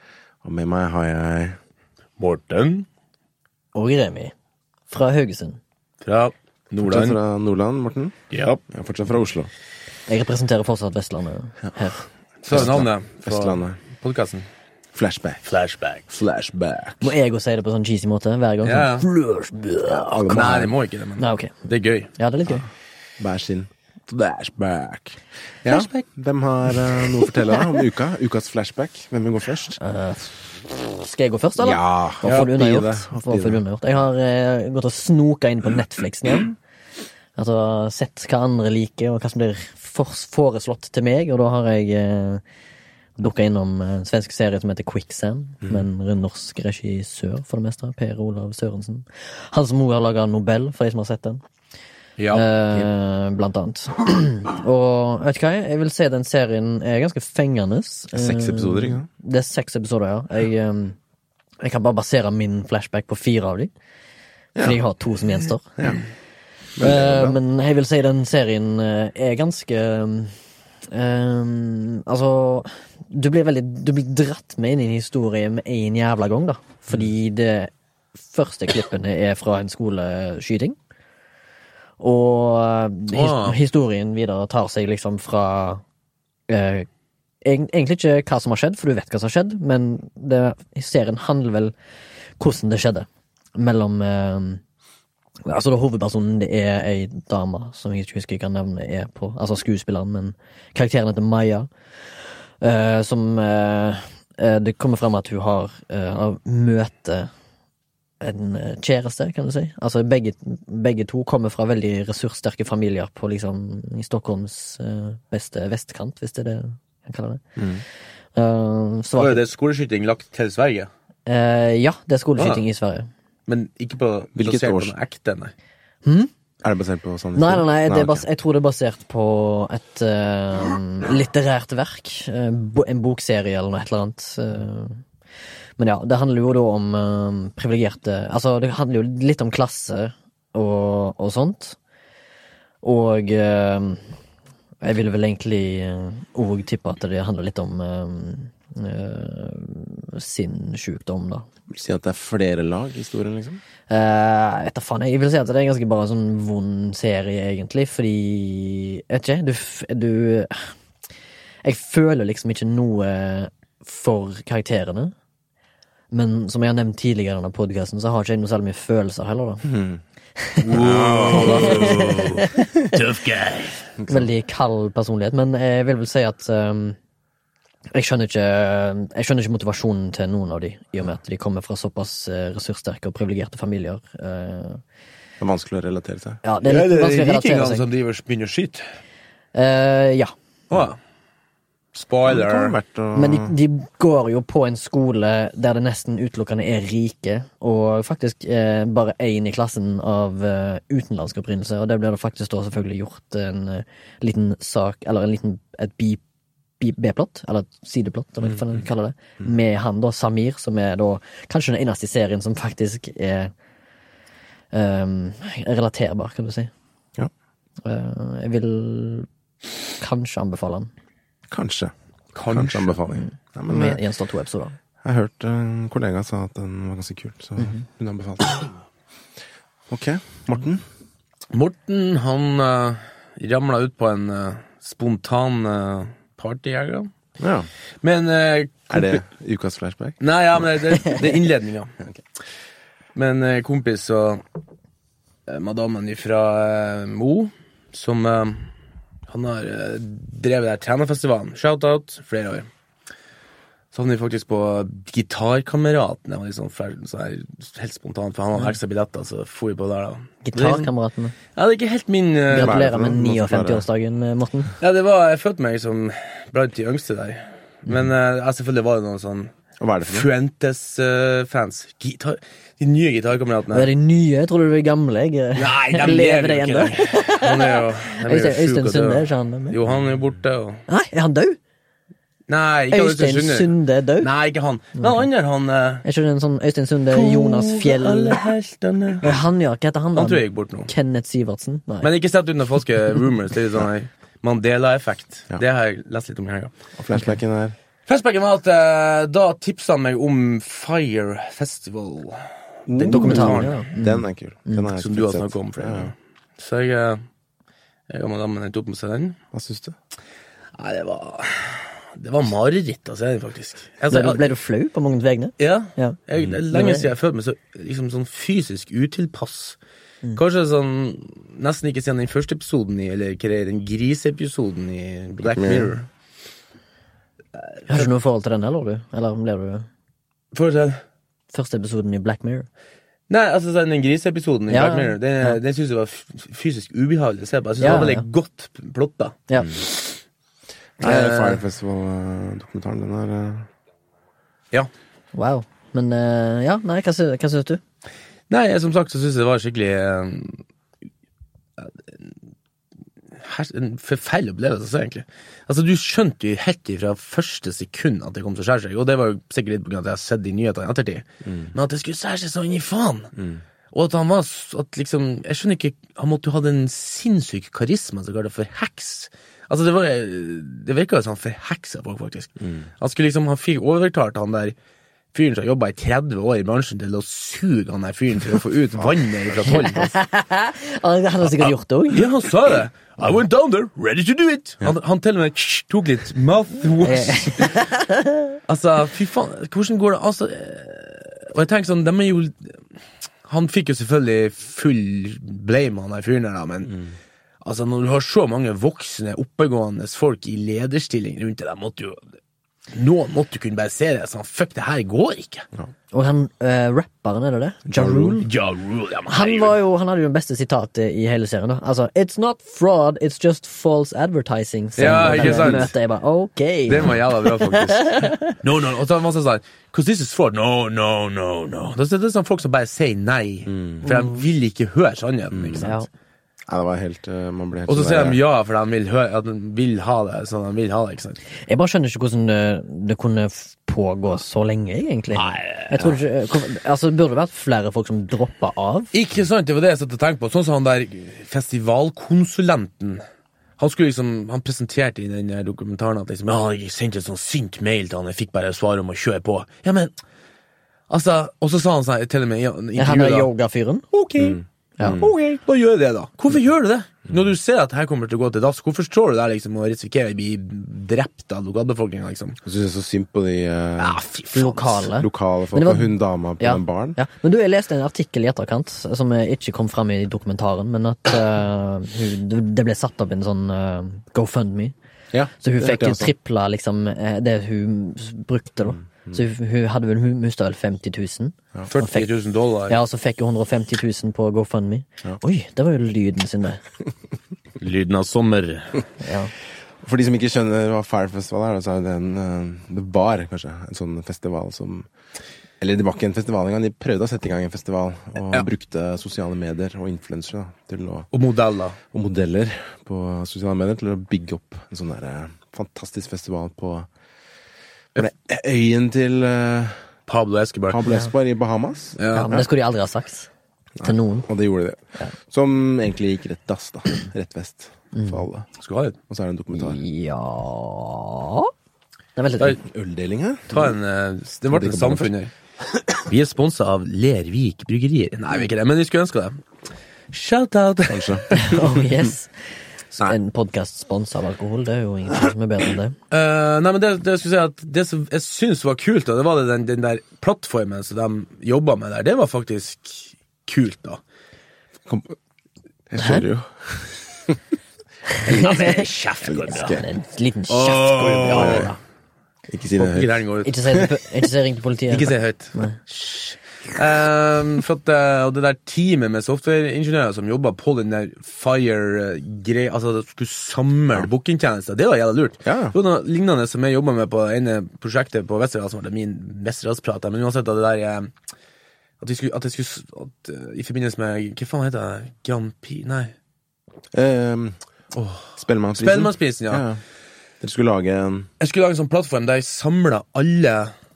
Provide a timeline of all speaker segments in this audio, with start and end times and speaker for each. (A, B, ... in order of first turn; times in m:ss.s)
0:00.4-0:01.6 A
0:02.2-0:02.9 B
0:03.7-0:04.3 C
0:04.9-0:05.6 C
0:06.0-0:07.2 B
0:06.8-0:09.5 A
0:08.3-0:08.6 B
0:10.1-0:12.0 C
0:12.4-0:14.5 B
0:12.5-0:13.8 A
0:14.9-0:15.4 A
0:15.4-0:16.1 B
0:16.1-0:17.1 A
0:17.0-0:20.4 C
0:18.6-0:19.0 B
0:19.9-0:20.7 A
0:20.2-0:22.1 B
0:21.2-0:21.5 C
0:22.1-0:22.6 C
0:23.2-0:29.8 A
0:25.6-0:26.0 B
0:29.8-0:36.6 C
0:31.6-0:33.6 A
0:37.4-0:42.4 C
0:43.2-0:51.4 C
0:52.2-0:52.5 B
0:52.3-1:01.0 C
0:58.1-0:59.1 A
1:01.6-1:03.7 C
1:04.5-1:04.8 A
1:04.6-1:05.7 C
1:06.8-1:07.4 A
1:06.8-1:10.4 C
1:10.9-1:17.7 C
1:18.2-1:20.8 C
1:22.0-1:25.8 C
1:23.1-1:23.6 B
1:26.5-1:26.9 C
1:27.4-1:31.7 C
1:32.4-1:34.6 C
1:35.4-1:41.7 C
1:42.6-1:47.3 C
1:48.2-1:57.4 C
1:57.6-1:57.8 A
1:58.3-1:59.4 C
1:59.2-2:00.9 B
2:01.2-2:03.1 C
2:02.4-2:02.6 B
2:03.5-2:05.5 B
2:04.4-2:04.9 A
2:06.0-2:06.3 C
2:06.6-2:08.2 A
2:07.4-2:15.0 C
2:15.8-2:21.8 C
2:22.8-2:24.1 C
2:24.8-2:31.5 C
2:31.7-2:33.6 A
2:33.9-2:40.7 C
2:41.6-2:45.1 C
2:46.1-2:49.7 C
2:49.6-2:50.0 A
2:50.4-2:50.7 C
2:50.6-2:53.8 B
2:50.7-2:52.4 A
2:51.3-2:53.0 C
2:54.0-2:54.3 A
2:54.1-2:57.0 C
2:57.9-3:04.8 C
3:05.4-3:06.4 A
3:06.4-3:07.9 C
3:06.6-3:08.8 B
3:09.5-3:10.3 C
3:10.7-3:11.0 B
3:11.9-3:12.8 B
3:12.2-3:13.5 A
3:13.1-3:26.2 C
3:26.8-3:33.5 C
3:34.7-3:36.7 C
3:37.8-3:39.3 C
3:40.0-3:40.9 C
3:41.5-3:41.9 A
3:42.3-3:43.0 B
3:42.4-3:44.0 A
3:43.7-3:44.8 C
3:45.0-3:48.7 A
3:49.9-3:50.8 A
3:51.5-3:57.1 B
3:57.4-3:57.7 A
3:58.0-3:59.2 B
3:58.9-4:00.7 A
4:00.2-4:01.9 B
4:03.1-4:04.4 B
4:05.5-4:08.7 B
4:09.3-4:12.7 B
4:13.9-4:20.9 B
4:20.4-4:21.4 C
4:21.5-4:22.8 B
4:22.5-4:23.8 A
4:22.5-4:24.7 C
4:24.8-4:29.5 B
4:29.8-4:30.3 A
4:30.0-4:33.9 B
4:33.7-4:39.8 C
4:35.5-4:40.8 B
4:40.9-4:41.6 C
4:42.5-4:43.7 B
4:42.9-4:44.3 C
4:44.2-4:46.0 B
4:45.0-4:45.2 C
4:46.0-4:48.4 C
4:47.1-4:49.3 B
4:49.2-4:52.1 C
4:50.1-4:50.9 B
4:52.0-4:56.7 B
4:57.0-4:57.7 A
4:58.1-5:03.8 B
5:02.9-5:06.1 A
5:03.1-5:04.9 C
5:04.9-5:07.2 B
5:08.1-5:09.4 B
5:09.5-5:09.9 A
5:10.8-5:14.4 B
5:14.1-5:16.2 C
5:15.6-5:19.8 B
5:16.4-5:16.6 A
5:16.7-5:17.1 C
5:20.4-5:26.0 B
5:25.5-5:25.9 A
5:27.9-5:29.9 C
5:30.5-5:31.0 B
5:31.5-5:32.7 C
5:33.3-5:40.1 B
5:34.7-5:35.6 C
5:37.8-5:38.2 C
5:39.5-5:39.7 C
5:41.0-5:43.7 A
5:41.0-5:41.6 B
5:45.3-5:47.8 C
5:48.5-5:50.6 B
5:53.4-6:03.3 B
6:01.4-6:01.7 A
6:03.4-6:03.6 A
6:03.9-6:14.7 B
6:12.6-6:12.9 A
6:15.3-6:20.1 B
6:19.0-6:19.6 A
6:19.7-6:22.3 C
6:21.5-6:27.8 B
6:27.0-6:28.6 C
6:28.7-6:32.8 B
6:33.4-6:37.0 B
6:37.6-6:42.2 B
6:42.9-6:45.6 B
6:46.1-6:48.5 C
6:47.8-6:48.4 A
6:48.4-6:49.8 B
6:49.3-6:58.6 C
6:55.0-6:55.9 B
6:55.0-6:55.9 A
6:56.9-7:06.0 B
6:56.9-6:57.2 A
7:03.7-7:04.0 A
7:05.5-7:05.9 A
7:05.8-7:06.1 C
7:06.7-7:08.4 A
7:07.9-7:11.4 B
7:11.7-7:19.1 C
7:15.3-7:16.1 B
7:19.1-7:23.2 B
7:23.8-7:30.1 B
7:31.1-7:33.5 B
7:33.0-7:34.0 C
7:34.1-7:42.6 B
7:34.4-7:35.3 A
7:42.6-7:44.2 A
7:44.0-7:45.1 B
7:44.5-7:54.9 C
7:45.2-7:47.2 A
7:55.3-7:56.3 A
7:55.6-8:02.3 C
7:59.1-7:59.4 A
8:01.9-8:03.0 B
8:02.9-8:06.8 C
8:07.8-8:09.0 B
8:09.2-8:09.5 C
8:10.0-8:15.1 A
8:15.8-8:21.3 A
8:21.3-8:22.0 B
8:22.1-8:27.1 A
8:28.2-8:30.0 A
8:30.3-8:31.0 B
8:30.9-8:32.7 A
8:32.2-8:32.5 B
8:32.3-8:33.5 C
8:34.0-8:38.7 A
8:34.0-8:34.5 C
8:38.1-8:38.4 C
8:38.8-8:39.2 B
8:39.3-8:40.0 A
8:39.7-8:41.7 C
8:42.4-8:42.8 C
8:42.8-8:43.9 A
8:43.7-8:45.5 B
8:44.7-8:45.3 A
8:46.2-8:49.6 B
8:50.3-8:51.9 B
8:51.1-8:51.5 A
8:51.5-8:52.5 C
8:53.2-8:56.1 C
8:56.3-9:04.2 B
9:05.0-9:05.3 A
9:06.1-9:07.6 A
9:06.2-9:06.4 C
9:08.3-9:12.0 C
9:08.5-9:10.0 B
9:09.4-9:10.1 A
9:10.7-9:11.9 B
9:11.4-9:11.9 A
9:12.7-9:14.1 A
9:13.0-9:13.8 B
9:13.6-9:16.0 C
9:15.1-9:31.3 B
9:25.6-9:25.9 A
9:32.2-9:36.3 B
9:37.1-9:40.0 A
9:39.0-9:39.8 B
9:40.6-9:41.5 A
9:41.6-9:43.9 B